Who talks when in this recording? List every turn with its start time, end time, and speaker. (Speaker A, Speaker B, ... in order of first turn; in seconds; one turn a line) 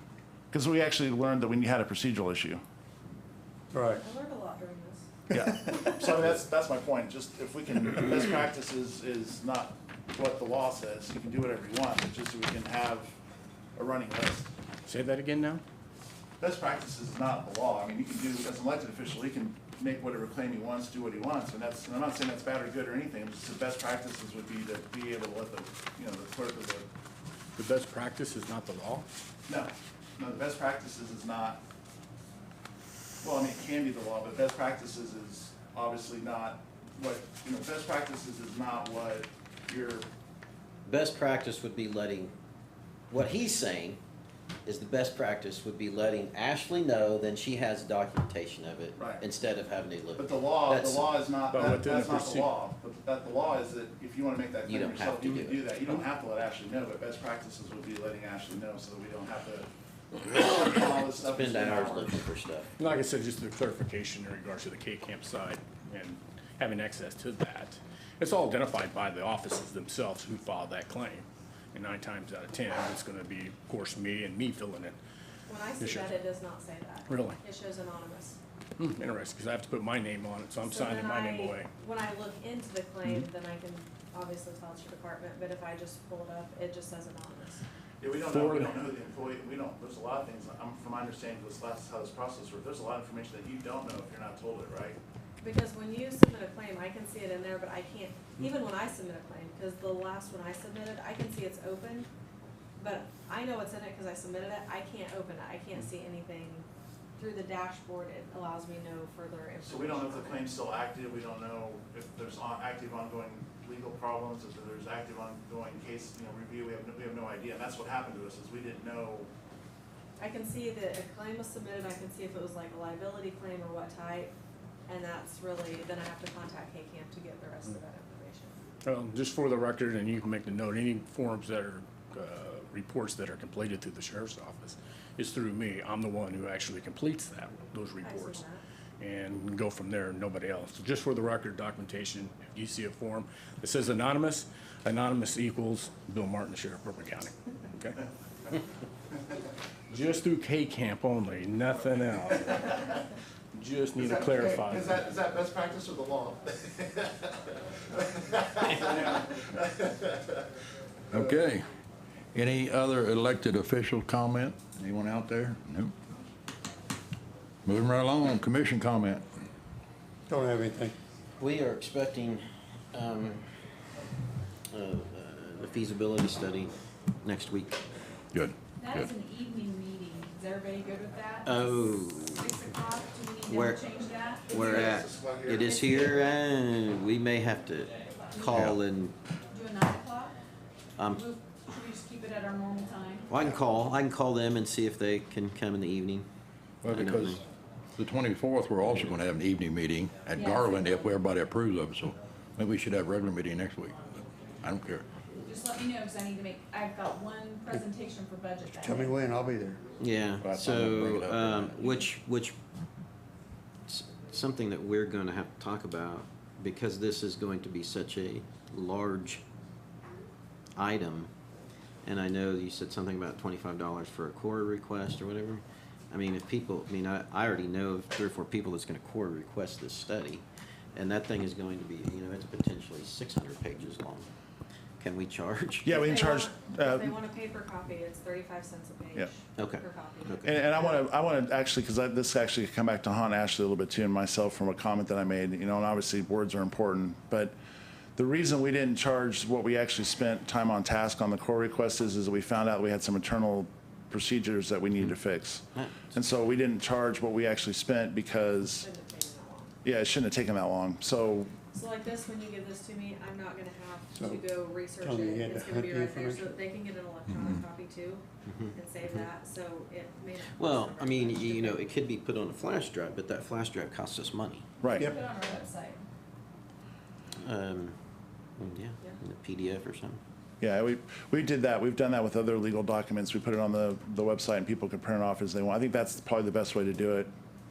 Speaker A: 0.5-2.6
Speaker B: 3.7-4.0
Speaker C: 3.9-5.1
Speaker A: 5.3-13.2
Speaker A: 13.8-14.5
Speaker D: 14.9-15.6
Speaker A: 16.4-26.9
Speaker D: 27.6-29.1
Speaker A: 29.5-31.6
Speaker A: 33.2-40.1
Speaker E: 40.9-42.3
Speaker E: 43.1-44.0
Speaker E: 44.6-51.1
Speaker A: 49.0-49.2
Speaker A: 50.1-59.7
Speaker D: 51.5-52.5
Speaker E: 54.6-55.7
Speaker A: 60.2-62.1
Speaker E: 60.8-62.7
Speaker D: 62.8-75.0
Speaker C: 75.5-78.4
Speaker D: 75.8-76.2
Speaker D: 77.1-77.4
Speaker D: 78.8-81.7
Speaker C: 80.6-87.6
Speaker A: 88.0-95.0
Speaker D: 88.2-88.8
Speaker C: 95.4-102.1
Speaker C: 102.8-110.5
Speaker A: 109.6-119.3
Speaker C: 120.2-124.3
Speaker C: 124.9-128.6
Speaker D: 128.8-138.4
Speaker C: 138.0-138.6
Speaker D: 139.0-148.0
Speaker D: 149.9-153.0
Speaker D: 153.5-155.0
Speaker A: 154.0-160.4
Speaker F: 161.1-161.7
Speaker F: 162.3-165.9
Speaker F: 167.6-169.3
Speaker B: 170.3-171.0
Speaker E: 171.4-173.4
Speaker E: 174.7-177.8
Speaker F: 178.3-179.1
Speaker G: 178.8-185.0
Speaker E: 181.4-182.6
Speaker E: 183.4-183.9
Speaker E: 184.5-189.2
Speaker A: 184.5-186.1
Speaker G: 185.7-186.4
Speaker G: 188.1-188.7
Speaker G: 189.5-190.3
Speaker E: 191.0-191.3
Speaker G: 191.1-193.3
Speaker E: 193.3-196.3
Speaker F: 196.8-197.4
Speaker E: 196.9-197.4
Speaker F: 197.9-205.1
Speaker G: 200.3-201.1
Speaker G: 205.4-209.2
Speaker B: 208.8-209.8
Speaker E: 210.0-212.6
Speaker F: 210.4-212.1
Speaker E: 213.9-219.4
Speaker E: 220.7-221.3
Speaker E: 222.0-234.3
Speaker E: 235.0-235.9
Speaker A: 235.8-237.1
Speaker C: 235.9-241.1
Speaker E: 239.6-240.6
Speaker A: 240.4-247.5
Speaker A: 248.2-258.9
Speaker E: 255.7-256.1
Speaker C: 258.7-259.7
Speaker A: 259.8-261.5
Speaker C: 261.7-272.1
Speaker B: 265.0-266.6
Speaker F: 267.3-267.6
Speaker E: 268.5-269.2
Speaker E: 270.6-274.7
Speaker A: 274.8-275.1
Speaker G: 274.9-276.0
Speaker E: 277.4-277.9
Speaker E: 278.6-280.2
Speaker A: 280.6-287.3